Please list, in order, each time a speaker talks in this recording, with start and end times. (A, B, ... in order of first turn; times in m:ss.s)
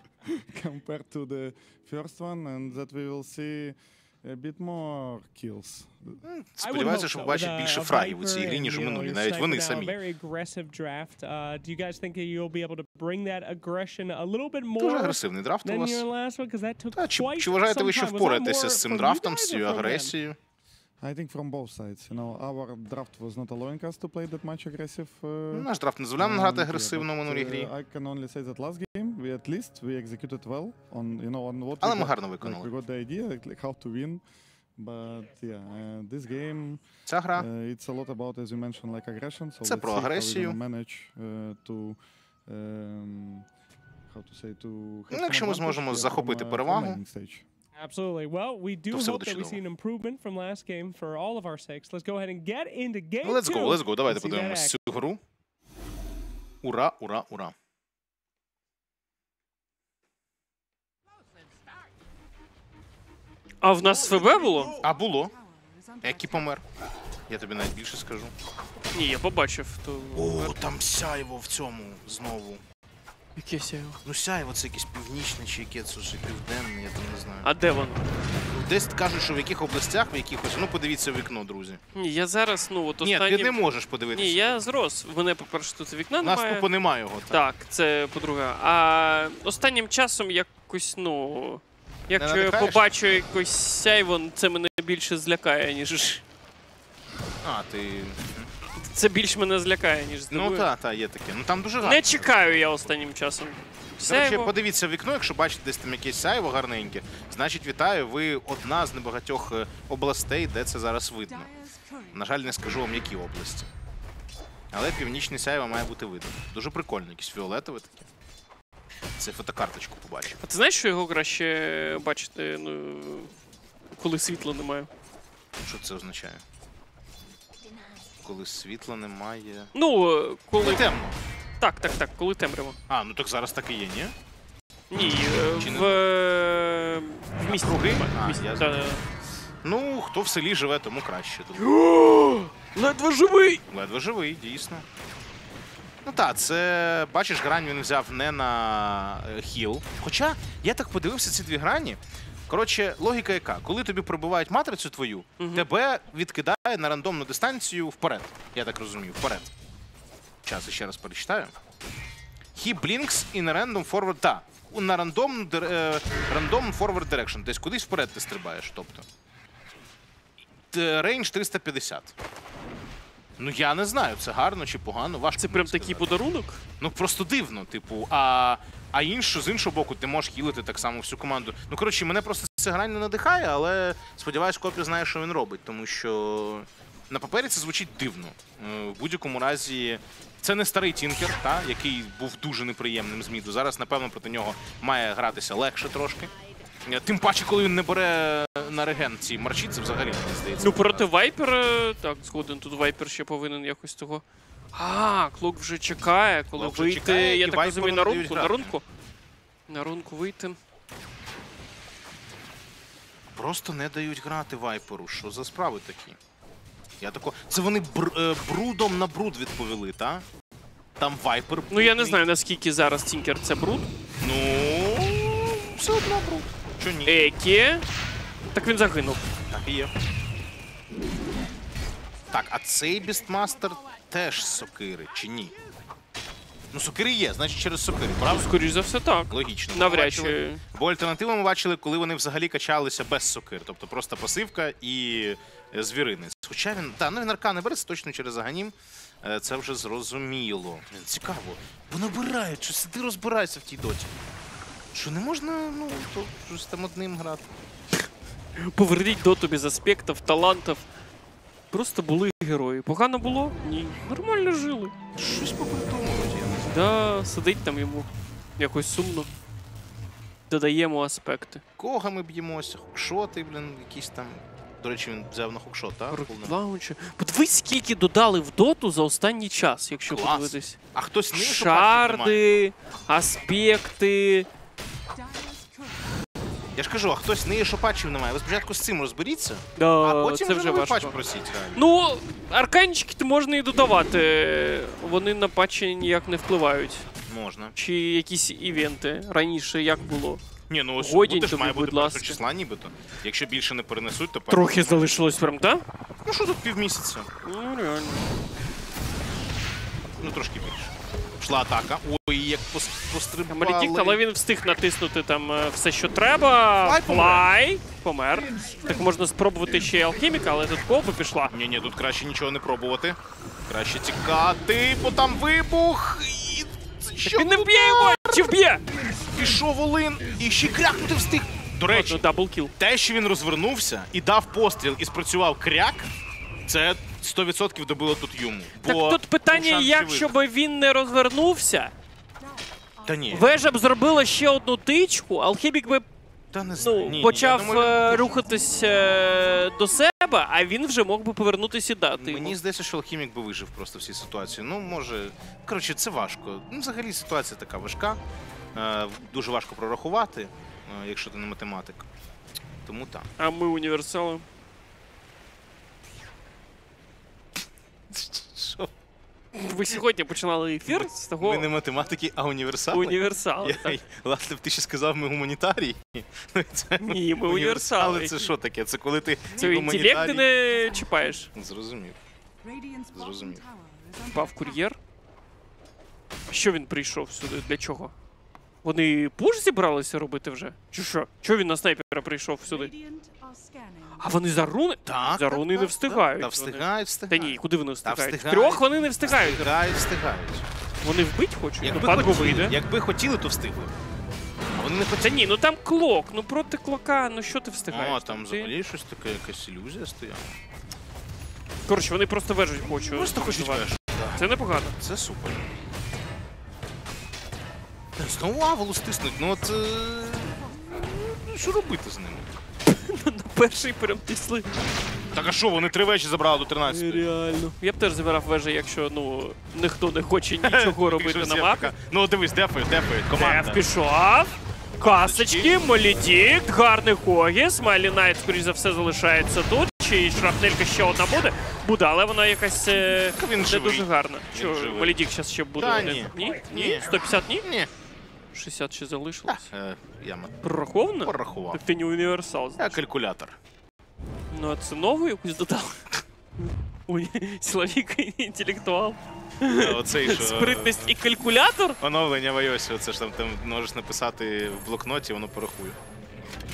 0:00.3-0:06.2 A
0:06.2-0:10.0 B
0:06.6-0:20.1 C
0:14.8-0:16.0 B
0:16.9-0:20.4 B
0:21.0-0:34.2 A
0:25.5-0:27.7 B
0:31.8-0:32.7 B
0:34.8-0:36.8 A
0:37.1-0:37.5 B
0:37.3-0:43.5 A
0:39.6-0:40.6 B
0:44.1-0:47.4 A
0:45.1-0:47.0 B
0:47.8-0:54.8 C
0:48.9-0:49.6 B
0:53.2-0:55.2 B
0:56.6-0:57.5 B
1:03.6-1:04.7 D
1:04.8-1:05.3 B
1:06.0-1:06.6 B
1:07.3-1:08.3 B
1:08.9-1:10.6 D
1:10.1-1:12.6 B
1:13.4-1:14.0 D
1:14.0-1:17.5 B
1:17.4-1:18.0 D
1:18.4-1:21.8 B
1:21.9-1:23.6 D
1:23.0-1:24.6 B
1:24.1-1:26.7 D
1:26.2-1:27.4 B
1:27.3-1:36.2 D
1:32.2-1:32.8 B
1:37.4-1:38.5 B
1:38.8-1:40.7 D
1:40.3-1:42.3 B
1:41.8-1:44.5 D
1:44.0-1:51.5 B
1:52.1-1:53.7 B
1:54.7-1:58.1 B
1:59.2-2:00.4 B
2:00.4-2:03.3 D
2:04.0-2:04.9 D
2:05.6-2:06.4 B
2:08.2-2:09.7 B
2:09.7-2:10.9 D
2:10.6-2:11.2 B
2:11.6-2:12.8 D
2:12.9-2:14.1 B
2:14.9-2:19.0 D
2:15.6-2:16.0 B
2:17.4-2:18.8 B
2:19.6-2:21.6 B
2:21.6-2:23.6 D
2:23.7-2:24.8 B
2:26.0-2:39.5 B
2:35.4-2:35.7 D
2:40.4-2:41.5 B
2:42.5-2:49.0 B
2:50.7-2:52.1 B
2:53.4-2:56.1 B
2:55.4-2:56.6 D
2:56.8-3:16.3 B
3:16.8-3:21.1 B
3:20.6-3:28.8 D
3:26.5-3:28.8 B
3:29.7-3:30.6 D
3:33.3-3:36.2 B
3:37.0-3:40.2 B
3:41.0-3:42.2 B
3:41.7-3:43.9 D
3:44.2-3:47.2 B
3:47.0-3:47.8 D
3:48.5-3:49.3 D
3:49.5-3:49.9 B
3:52.3-3:55.5 B
3:56.7-3:58.5 B
3:58.2-4:00.6 D
3:59.3-4:14.1 B
4:14.9-4:17.5 B
4:18.6-4:20.8 D
4:21.7-4:24.9 D
4:25.2-4:26.7 B
4:26.7-4:29.3 D
4:30.5-4:31.6 D
4:31.8-4:36.5 B
4:36.1-4:40.8 D
4:40.0-4:42.4 B
4:41.3-4:44.5 D
4:46.7-4:51.8 B
4:49.8-4:51.1 D
4:51.7-4:57.1 D
4:57.3-4:57.8 B
4:57.8-5:00.4 D
5:00.7-5:05.1 B
5:01.0-5:02.4 D
5:04.5-5:05.8 D
5:06.2-5:07.3 B
5:07.4-5:08.2 D
5:10.2-5:14.2 B
5:13.5-5:21.5 D
5:16.8-5:17.5 B
5:21.5-5:28.5 B
5:27.2-5:28.8 D
5:29.3-5:32.2 B
5:31.9-5:32.7 D
5:32.8-5:36.1 B
5:36.6-5:40.4 B
5:38.8-5:41.9 D
5:43.0-5:43.5 B
5:43.3-5:46.0 D
5:46.5-5:48.4 B
5:46.8-5:52.6 D
5:52.2-5:58.2 B
5:58.7-6:02.0 B
6:02.8-6:03.3 B
6:03.4-6:04.4 D
6:08.1-6:08.9 B
6:09.5-6:11.7 D
6:10.9-6:20.5 B
6:12.9-6:14.0 D
6:17.0-6:18.5 D
6:19.6-6:21.5 D
6:21.5-6:22.2 B
6:23.1-6:23.6 B
6:24.2-6:25.0 D
6:26.5-6:28.1 D
6:28.8-6:33.0 D
6:34.2-6:39.7 D
6:35.0-6:40.6 B
6:41.0-6:42.8 D
6:41.8-6:43.9 B
6:44.7-6:45.5 B
6:45.2-6:48.7 D
6:47.9-6:50.5 B
6:51.9-6:55.0 D
6:53.0-6:55.7 B
6:58.2-7:02.6 B
7:02.8-7:04.7 D
7:05.3-7:07.2 B
7:06.8-7:11.9 D
7:10.6-7:13.9 B
7:13.3-7:27.7 D
7:15.0-7:15.7 B
7:23.3-7:25.2 B
7:25.8-7:27.1 B
7:27.6-7:27.9 B
7:28.5-7:29.7 D
7:29.5-7:30.6 B
7:30.6-7:33.0 D
7:31.2-7:31.8 B
7:32.8-7:33.6 B
7:34.5-7:36.0 D
7:36.6-7:42.0 D
7:39.7-7:41.1 B
7:42.0-7:46.0 B